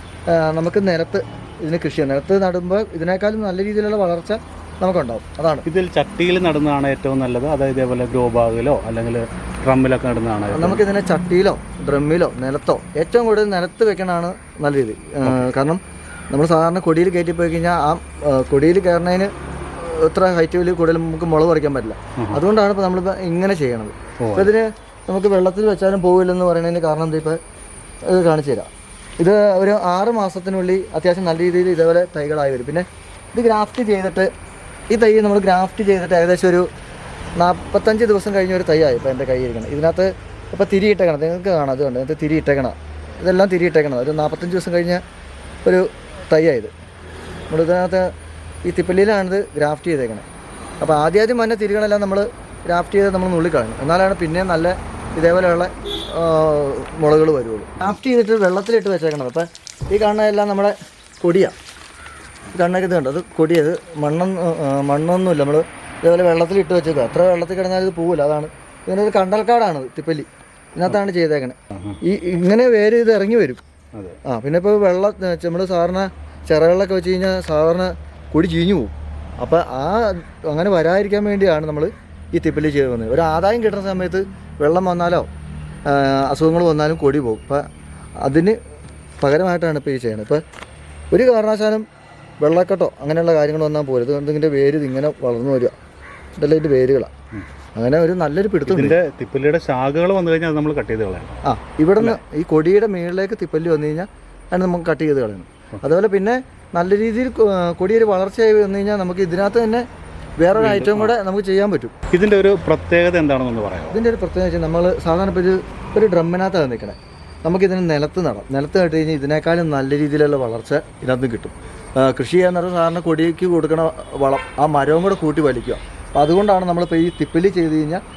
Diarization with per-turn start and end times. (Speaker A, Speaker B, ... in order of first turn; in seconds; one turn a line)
Speaker A: 0.3-5.7
Speaker B: 5.7-10.8
Speaker A: 10.5-15.8
Speaker A: 16.3-27.4
Speaker B: 24.2-24.5
Speaker A: 28.1-34.3
Speaker A: 34.9-36.7
Speaker A: 37.4-45.0
Speaker A: 45.6-46.7
Speaker A: 47.5-48.1
Speaker A: 48.7-50.2
Speaker A: 50.8-61.5
Speaker A: 62.5-73.6
Speaker B: 73.9-74.2
Speaker A: 74.3-85.3
Speaker A: 85.9-87.7
Speaker A: 88.2-88.6
Speaker A: 89.2-90.4
Speaker A: 91.1-91.8
Speaker A: 92.4-95.7
Speaker A: 96.4-97.1
Speaker A: 97.8-99.0
Speaker B: 98.7-101.3
Speaker A: 101.4-109.8
Speaker A: 110.4-111.9
Speaker B: 110.6-111.2
Speaker B: 112.1-114.0
Speaker A: 113.9-128.0